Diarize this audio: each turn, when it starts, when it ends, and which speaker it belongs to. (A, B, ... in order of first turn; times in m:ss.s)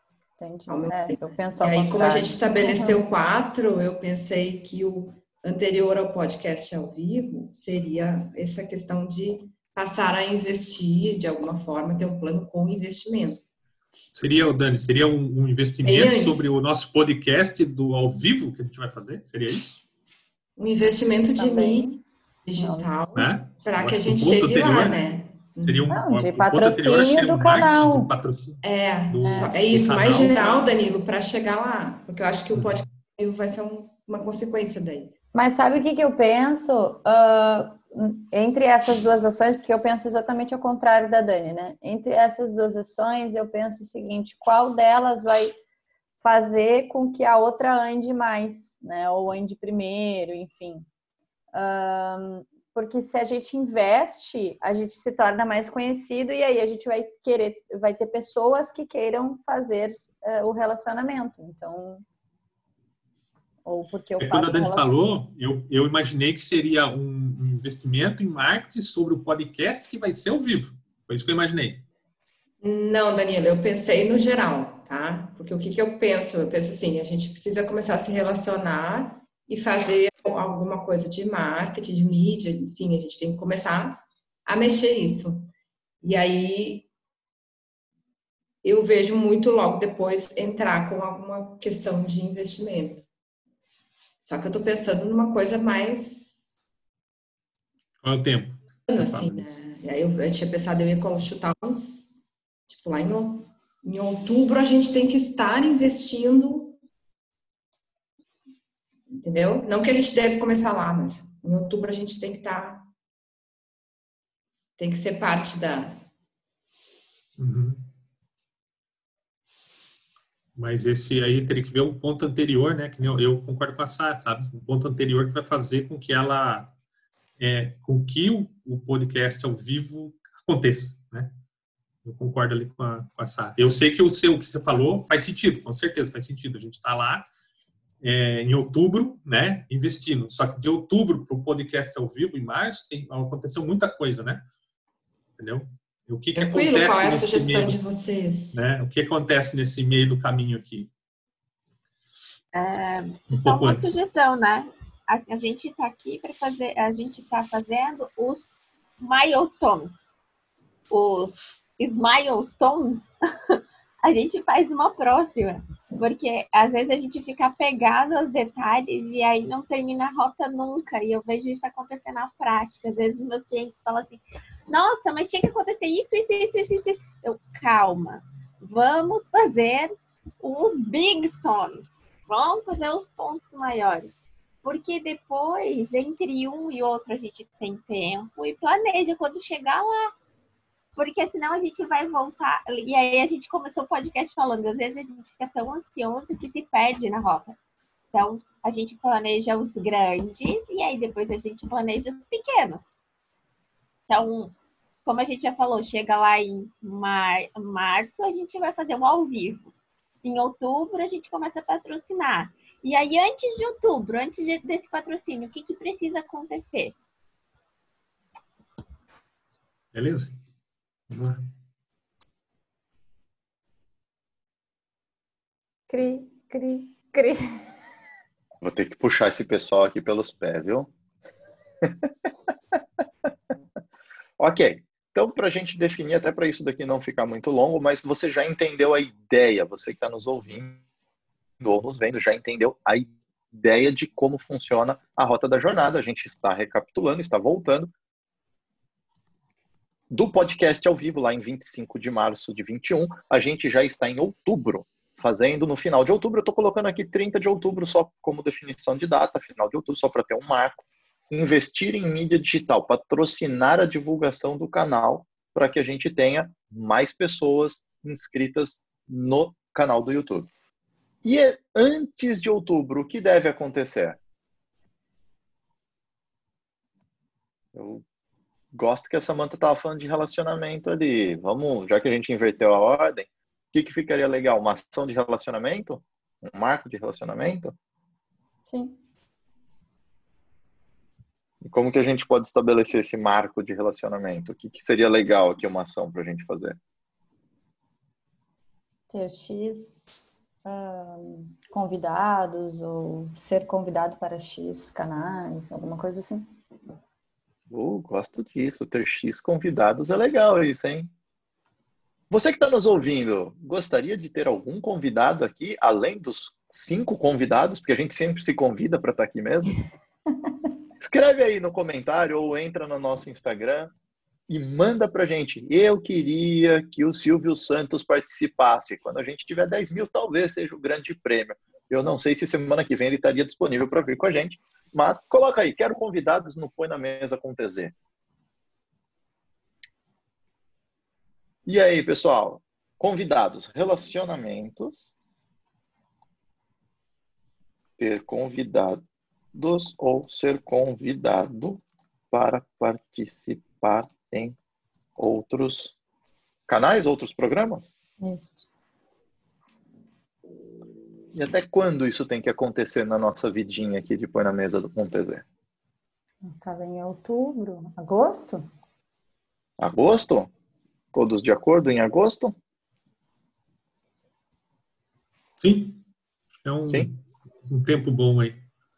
0:00.4-0:03.0 A
0:00.7-0:13.4 B
0:14.1-0:19.8 C
0:15.8-0:16.5 B
0:20.6-0:25.9 B
0:21.4-0:22.0 A
0:22.6-0:23.2 A
0:23.1-0:25.0 C
0:25.6-0:30.7 C
0:25.9-0:28.1 A
0:28.6-0:35.1 B
0:29.2-0:29.6 A
0:32.5-0:32.8 C
0:35.3-0:45.6 A
0:46.2-0:50.9 A
0:51.5-1:02.0 A
1:03.6-1:04.9 A
1:04.2-1:11.8 C
1:12.6-1:25.5 B
1:26.0-1:26.9 B
1:28.6-1:33.0 B
1:34.2-1:36.5 B
1:38.0-1:39.6 C
1:38.9-1:42.2 B
1:42.7-1:46.8 B
1:49.1-1:52.9 B
1:54.8-1:56.0 B
1:57.4-1:57.9 C
2:00.6-2:06.7 C
2:07.4-2:11.3 C
2:12.0-2:17.3 C
2:18.0-2:24.4 C
2:25.4-2:27.8 C
2:26.3-2:28.6 B
2:28.5-2:30.9 C
2:32.5-2:40.0 D
2:33.3-2:34.0 C
2:40.9-3:10.1 D
3:10.9-3:17.6 D
3:18.1-3:22.9 D
3:24.1-3:29.7 D
3:30.2-3:36.9 D
3:39.9-3:40.4 C
3:41.1-3:41.4 C
3:45.9-3:47.6 A
3:48.6-3:50.9 E
3:54.4-4:00.8 E
4:01.6-4:07.9 E
4:10.1-4:30.5 E
4:31.2-4:34.2 E
4:37.7-4:38.0 E
4:38.7-4:47.7 E
4:48.6-4:49.0 A
4:51.6-4:56.8 E
4:59.1-5:00.1 A
5:00.6-5:06.5 A
5:07.7-5:11.1 E
5:12.3-5:19.8 E
5:21.0-5:23.9 E
5:24.5-5:37.9 E
5:41.6-5:45.0 E
5:48.0-5:49.0 E
5:49.5-5:54.6 E
5:55.2-5:55.9 E
5:56.7-5:57.9 E
5:58.2-5:58.6 A
6:01.3-6:05.4 E
6:06.4-6:08.7 A
6:09.8-6:10.5 E
6:11.1-6:12.6 E
6:15.6-6:16.0 C
6:16.6-6:18.6 C